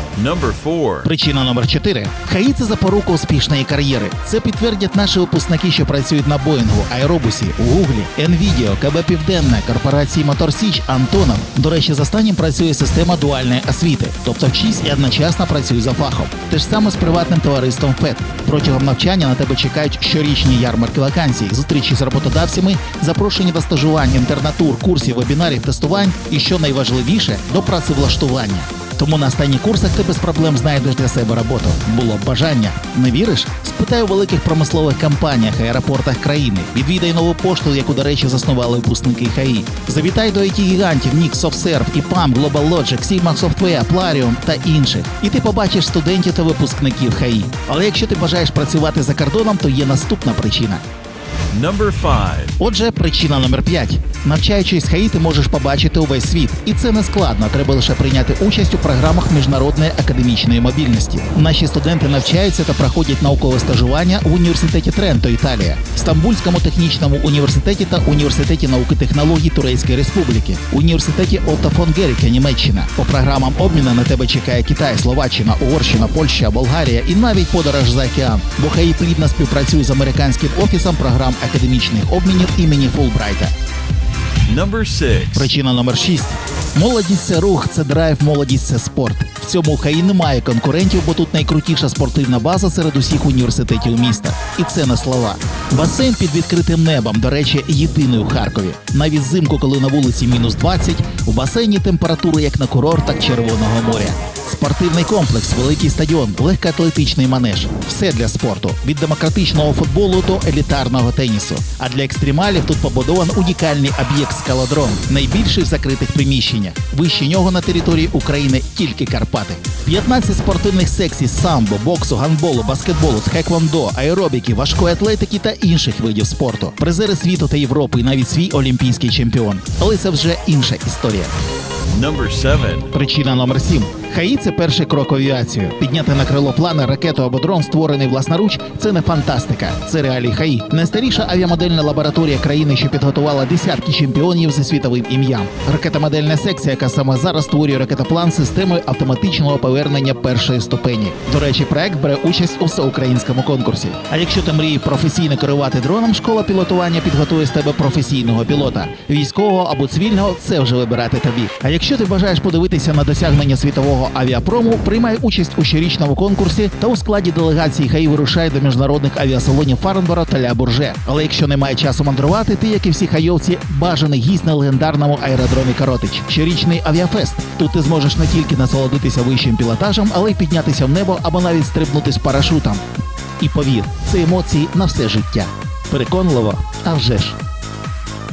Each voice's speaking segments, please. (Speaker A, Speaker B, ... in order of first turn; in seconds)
Speaker A: 0.1-1.1, 51.5-52.5, 84.5-85.5, 131.9-132.9
Speaker B: 1.0-50.8, 52.6-83.5, 85.3-131.3, 132.9-182.8, 183.4-187.3